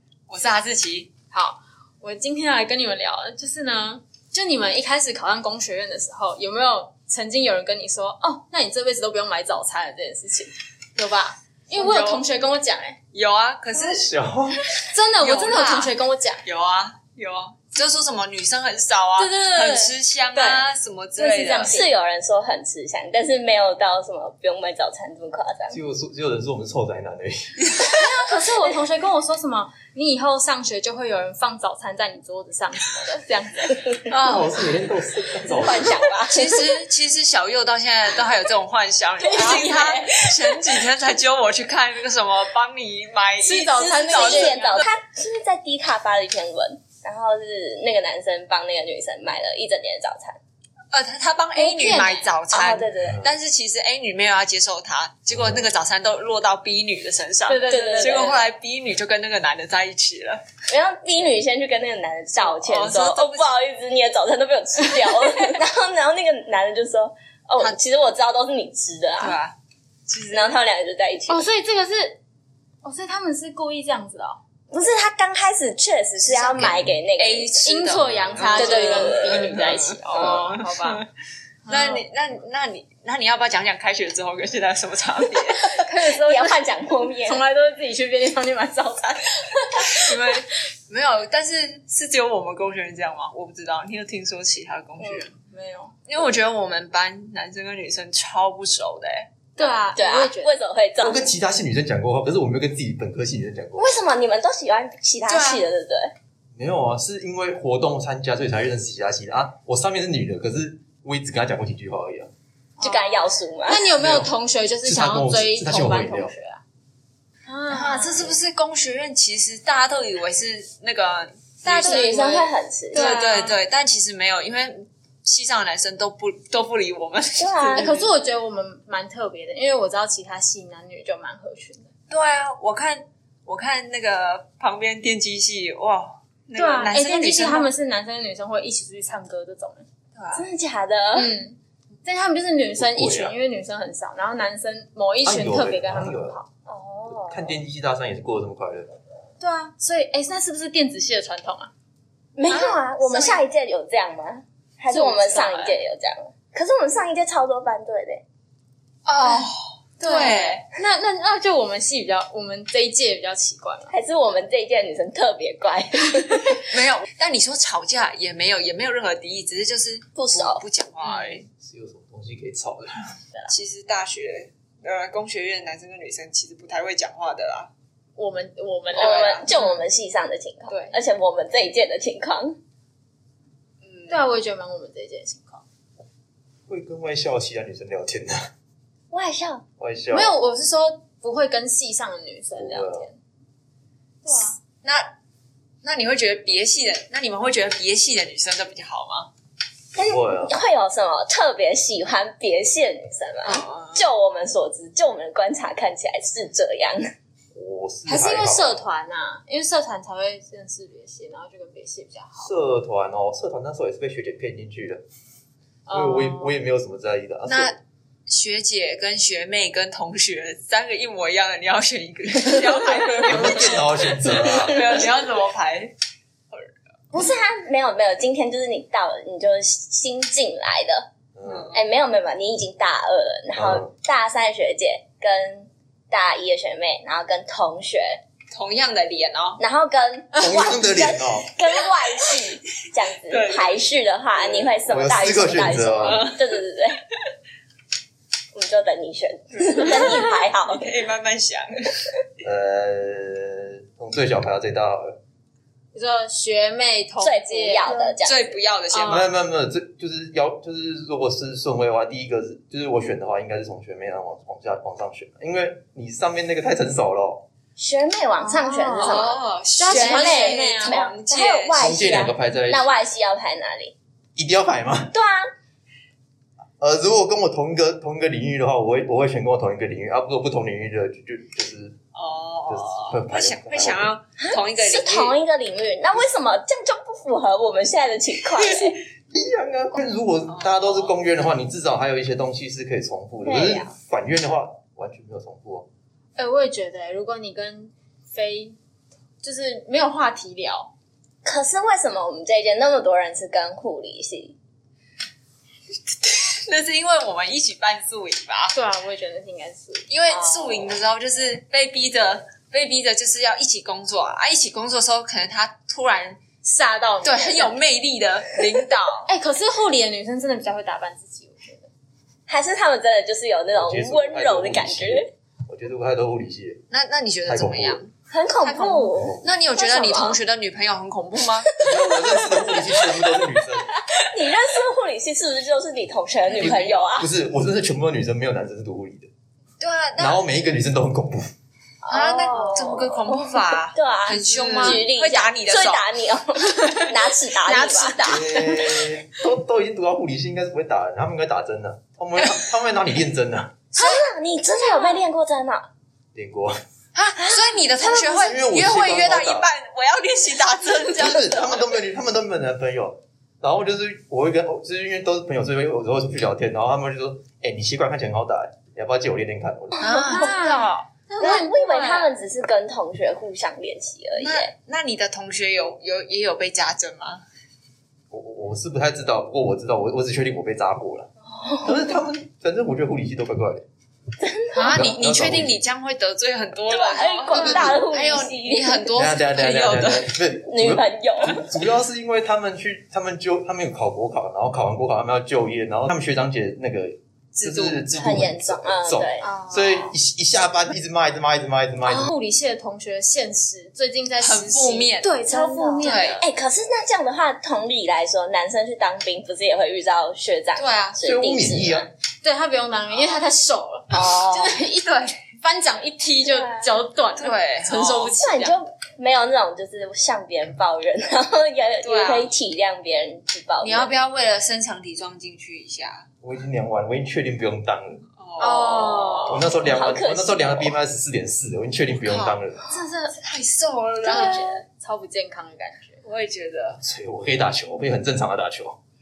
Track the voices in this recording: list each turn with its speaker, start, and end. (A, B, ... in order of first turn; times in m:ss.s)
0:00.3-0:01.1 A
0:01.3-0:13.0 B
0:11.7-0:12.3 A
0:13.1-0:14.1 A
0:13.7-0:14.6 C
0:14.8-0:16.4 B
0:15.2-0:21.8 A
0:19.2-0:20.0 B
0:20.3-0:20.6 D
0:21.2-0:25.8 D
0:21.3-0:21.9 B
0:25.7-0:27.6 C
0:27.7-0:28.0 A
0:27.8-0:34.0 B
0:34.1-0:36.0 C
0:35.4-0:36.7 D
0:36.3-0:44.8 A
0:39.2-0:40.7 D
0:43.4-0:44.9 B
0:43.7-0:50.4 D
0:50.9-1:00.4 A
0:51.6-0:52.3 B
0:52.5-0:53.2 D
0:55.3-0:55.7 C
0:57.5-0:58.4 B
0:57.6-0:58.4 D
1:00.7-1:09.4 D
1:02.4-1:03.6 A
1:09.2-1:09.5 A
1:10.1-1:10.6 A
1:10.3-1:11.4 D
1:11.3-1:12.2 B
1:12.8-1:14.4 B
1:14.7-1:17.7 D
1:16.5-1:16.8 C
1:16.6-1:21.0 A
1:17.6-1:21.0 B
1:18.4-1:19.7 D
1:21.6-1:22.0 B
1:21.7-1:25.7 A
1:25.7-1:29.9 B
1:25.8-1:27.4 D
1:29.9-1:35.3 A
1:35.0-1:35.9 B
1:36.1-1:39.3 A
1:39.6-1:40.5 B
1:39.6-1:41.3 D
1:41.0-1:43.9 C
1:43.8-1:46.1 D
1:45.3-1:45.7 A
1:46.6-1:52.3 C
1:52.8-1:56.6 B
1:52.8-1:53.9 D
1:54.0-1:54.3 C
1:54.8-1:56.3 C
1:57.4-1:58.3 B
1:57.7-2:08.1 A
2:01.7-2:03.2 D
2:01.7-2:03.6 B
2:07.4-2:07.9 D
2:07.7-2:11.9 B
2:12.1-2:17.7 A
2:16.5-2:19.8 B
2:20.2-2:20.4 A
2:20.3-2:21.3 D
2:21.1-2:26.4 B
2:22.8-2:23.3 C
2:25.2-2:26.4 C
2:26.7-2:27.6 D
2:27.2-2:28.9 C
2:29.4-2:31.7 B
2:32.4-2:38.2 D
2:32.5-2:33.4 A
2:34.9-2:35.8 B
2:39.1-2:40.6 A
2:40.0-2:43.9 B
2:43.9-2:46.6 D
2:46.6-2:51.4 A
2:50.2-2:50.6 D
2:51.0-2:51.4 B
2:51.6-2:53.2 C
2:53.5-2:57.7 A
2:58.2-2:59.4 B
2:58.9-2:59.8 A
2:59.0-3:02.6 D
3:00.7-3:01.0 B
3:03.8-3:04.3 A
3:04.1-3:05.6 B
3:06.7-3:08.5 C
3:09.1-3:09.6 D
3:09.8-3:10.3 C
3:10.1-3:13.2 B
3:12.6-3:13.1 C
3:14.2-3:14.6 B
3:14.8-3:15.1 A
3:15.8-3:19.3 A
3:19.9-3:27.0 D
3:20.0-3:20.5 C
3:23.4-3:24.1 A
3:27.5-3:28.8 C
3:28.1-3:32.5 B
3:32.4-3:35.0 C
3:35.9-3:36.6 B
3:35.9-3:37.7 C
3:37.4-3:45.9 A
3:43.2-3:43.5 D
3:43.2-3:44.8 C
3:44.3-3:44.8 D
3:47.1-3:51.1 D
3:51.4-3:51.7 C
3:51.4-3:51.8 A
3:51.7-3:58.2 D
3:53.5-3:53.9 C
3:58.5-3:59.6 A
3:59.6-4:07.0 D
4:00.4-4:01.5 C
4:03.3-4:03.8 A
4:04.4-4:04.8 A
4:04.8-4:06.3 C
4:06.0-4:06.6 A
4:08.5-4:10.8 D
4:09.5-4:12.1 A
4:12.4-4:15.2 C
4:15.9-4:18.2 B
4:17.2-4:18.6 D
4:18.2-4:19.3 A
4:18.9-4:19.3 B
4:19.1-4:27.4 C
4:27.8-4:33.9 D
4:28.4-4:31.0 B
4:29.0-4:31.8 A
4:31.8-4:32.9 C
4:34.4-4:35.1 C
4:35.1-4:35.5 D
4:36.8-4:42.0 C
4:42.2-4:45.4 A
4:42.7-4:44.1 C
4:44.4-4:49.0 D
4:48.5-4:49.0 A
4:49.3-4:55.9 C
4:50.5-4:51.1 A
4:53.4-4:53.9 D
4:56.4-4:58.8 B
4:59.4-5:00.9 B
5:01.4-5:04.6 D
5:06.2-5:08.8 A
5:08.7-5:10.1 B
5:10.1-5:16.4 A
5:10.3-5:11.0 D
5:16.6-5:17.8 B
5:17.2-5:19.3 A
5:19.3-5:21.9 B
5:22.5-5:25.3 D
5:23.7-5:26.8 C
5:26.9-5:28.1 A
5:27.4-5:28.0 C
5:28.3-5:30.4 D
5:28.6-5:31.7 A
5:31.7-5:37.3 D
5:31.8-5:33.9 C
5:36.4-5:37.2 A
5:36.6-5:39.3 C
5:39.8-5:40.4 A
5:40.2-5:41.5 C
5:42.0-5:48.5 D
5:42.1-5:46.1 A
5:46.7-5:47.1 A
5:47.7-5:48.7 A
5:48.2-5:53.8 C
5:53.9-5:55.9 D
5:54.0-5:54.2 A
5:56.4-5:56.8 C
5:57.2-6:01.9 A
5:57.4-5:58.6 D
5:58.4-5:59.7 C
6:01.1-6:10.1 C
6:10.0-6:11.1 A
6:10.0-6:12.3 B
6:11.4-6:14.7 D
6:14.4-6:17.4 A
6:18.3-6:21.3 C
6:21.5-6:22.1 D
6:21.8-6:23.8 C
6:24.4-6:25.0 D
6:24.7-6:30.4 A
6:24.9-6:25.8 C
6:26.9-6:29.1 D
6:27.5-6:28.0 B
6:29.2-6:42.3 C
6:30.6-6:31.7 D
6:37.6-6:38.5 A
6:38.2-6:39.5 D
6:39.4-6:40.0 B
6:42.1-6:46.5 B
6:44.4-6:45.4 A
6:45.4-6:52.1 D
6:46.0-6:46.4 A
6:50.8-6:51.2 A
6:51.2-6:52.1 C
6:52.4-6:55.0 B
6:53.1-6:53.6 A
6:54.2-6:55.4 A
6:54.2-6:54.6 D
6:55.6-6:58.8 B
6:56.4-6:56.9 D
6:57.4-6:58.4 A
6:58.4-7:04.1 D
7:02.0-7:02.5 A
7:03.8-7:06.3 A
7:06.4-7:08.2 C
7:08.4-7:09.7 A
7:08.6-7:09.6 B
7:09.5-7:12.9 C
7:09.8-7:11.0 D
7:12.1-7:12.6 A
7:12.9-7:13.4 B
7:13.3-7:14.8 A
7:14.2-7:16.2 B
7:14.2-7:14.7 D
7:16.2-7:17.0 A
7:17.0-7:19.0 C